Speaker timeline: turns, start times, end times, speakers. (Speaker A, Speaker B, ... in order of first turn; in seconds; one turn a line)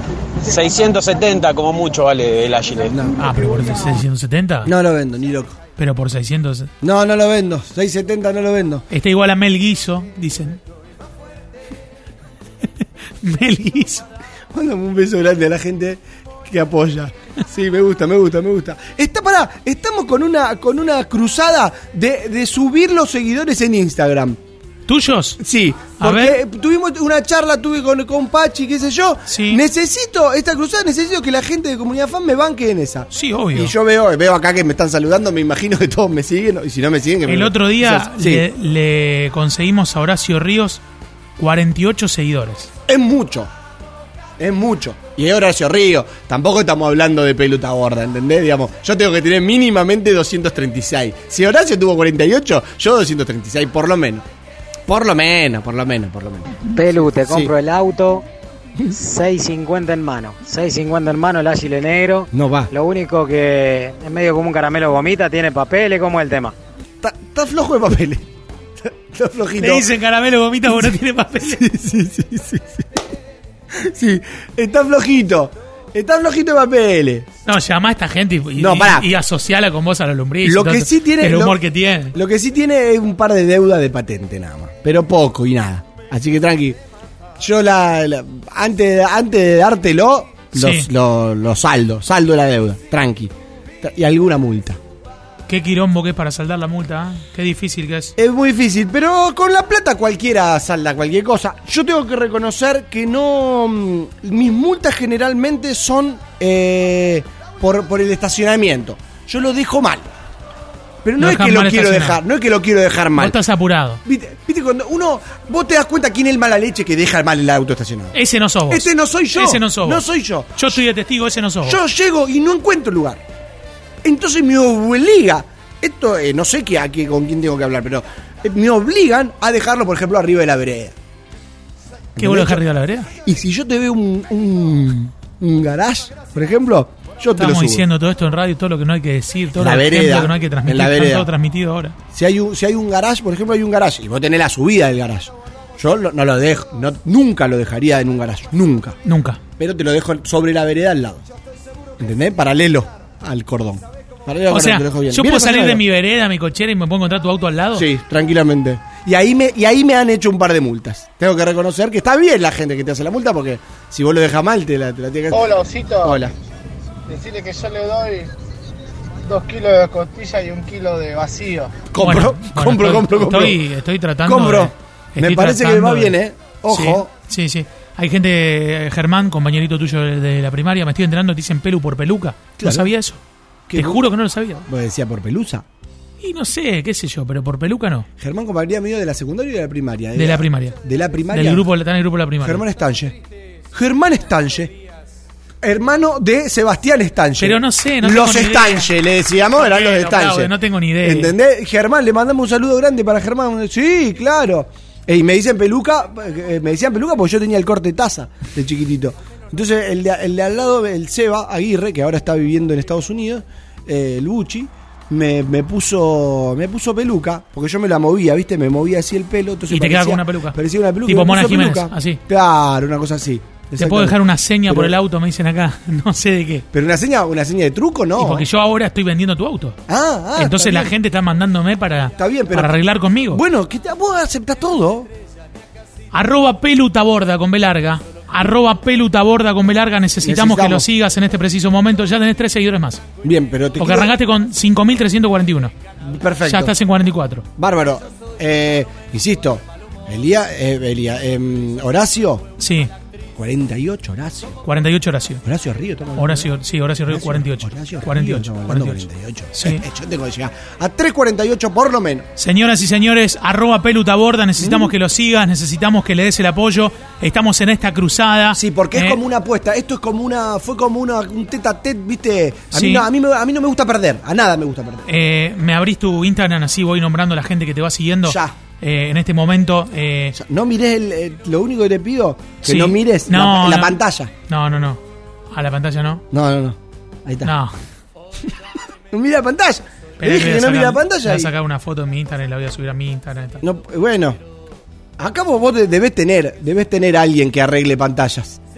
Speaker A: 0.4-3.0
Speaker B: 2.9-3.2
Speaker C: 3.2-4.7
Speaker B: 4.7-5.6
Speaker C: 5.8-6.7
Speaker B: 6.8-8.8
Speaker C: 8.9-10.6
Speaker C: 12.8-14.1
Speaker B: 14.5-24.4
Speaker C: 24.9-25.4
Speaker B: 25.4-38.5
Speaker C: 26.0-26.4
Speaker C: 29.3-29.6
Speaker C: 33.1-33.7
Speaker C: 37.3-40.8
Speaker C: 41.4-42.7
Speaker B: 42.9-43.5
Speaker B: 44.4-54.2
Speaker B: 54.9-57.5
Speaker D: 56.7-58.3
Speaker D: 58.9-66.5
Speaker B: 62.3-62.7
Speaker B: 67.0-68.3
Speaker B: 68.8-69.9
Speaker C: 69.6-71.7
Speaker B: 70.7-72.9
Speaker B: 73.7-77.3
Speaker C: 77.5-82.2
Speaker B: 78.6-79.1
Speaker B: 80.4-81.6
Speaker B: 82.1-86.8
Speaker B: 87.4-94.8
Speaker C: 90.5-90.9
Speaker C: 95.5-98.1
Speaker B: 98.2-110.1
Speaker B: 111.0-113.4
Speaker C: 111.2-112.2
Speaker C: 113.2-114.0
Speaker B: 114.0-118.2
Speaker C: 118.1-121.8
Speaker B: 118.7-120.8
Speaker B: 121.6-123.2
Speaker B: 124.0-130.9
Speaker B: 132.2-132.6
Speaker C: 132.2-133.1
Speaker B: 133.2-137.8
Speaker C: 137.4-142.0
Speaker B: 139.5-141.3
Speaker B: 142.1-149.0
Speaker C: 149.1-149.4
Speaker B: 149.6-151.2
Speaker B: 152.0-155.8
Speaker C: 154.5-157.9
Speaker B: 157.7-166.3
Speaker E: 165.4-166.1
Speaker E: 167.1-168.3
Speaker E: 169.2-171.8
Speaker B: 171.9-173.6
Speaker C: 172.0-176.2
Speaker B: 174.2-177.1
Speaker C: 176.7-183.2
Speaker B: 182.6-182.9
Speaker B: 183.7-184.1
Speaker C: 183.7-184.7
Speaker B: 184.7-185.6
Speaker C: 186.2-188.1
Speaker B: 188.2-191.7
Speaker C: 190.1-190.8
Speaker C: 191.3-192.6
Speaker B: 192.4-193.2
Speaker B: 193.7-194.8
Speaker B: 195.6-225.0
Speaker C: 197.4-198.9
Speaker C: 199.6-201.3
Speaker C: 219.7-222.2
Speaker C: 223.8-226.7
Speaker B: 226.7-228.5
Speaker C: 228.2-229.8
Speaker B: 229.9-230.9
Speaker C: 230.3-233.4
Speaker B: 232.2-232.8
Speaker B: 233.3-235.1
Speaker C: 236.1-243.0
Speaker B: 240.2-240.9
Speaker B: 243.2-244.2
Speaker C: 243.8-245.7
Speaker B: 246.0-246.7
Speaker C: 246.4-247.4
Speaker B: 247.6-252.5
Speaker C: 252.6-252.9
Speaker B: 253.4-254.6
Speaker C: 254.6-255.4
Speaker B: 255.4-256.5
Speaker C: 256.1-259.9
Speaker B: 257.1-262.3
Speaker C: 262.4-269.2
Speaker B: 264.6-264.9
Speaker B: 268.5-275.1
Speaker C: 272.7-273.1
Speaker C: 275.1-280.4
Speaker B: 278.2-278.5
Speaker B: 280.4-284.3
Speaker C: 282.6-285.0
Speaker C: 285.5-286.2
Speaker B: 286.3-287.5
Speaker C: 287.4-287.7
Speaker B: 289.1-291.5
Speaker C: 290.2-293.6
Speaker B: 293.6-294.4
Speaker B: 295.2-298.6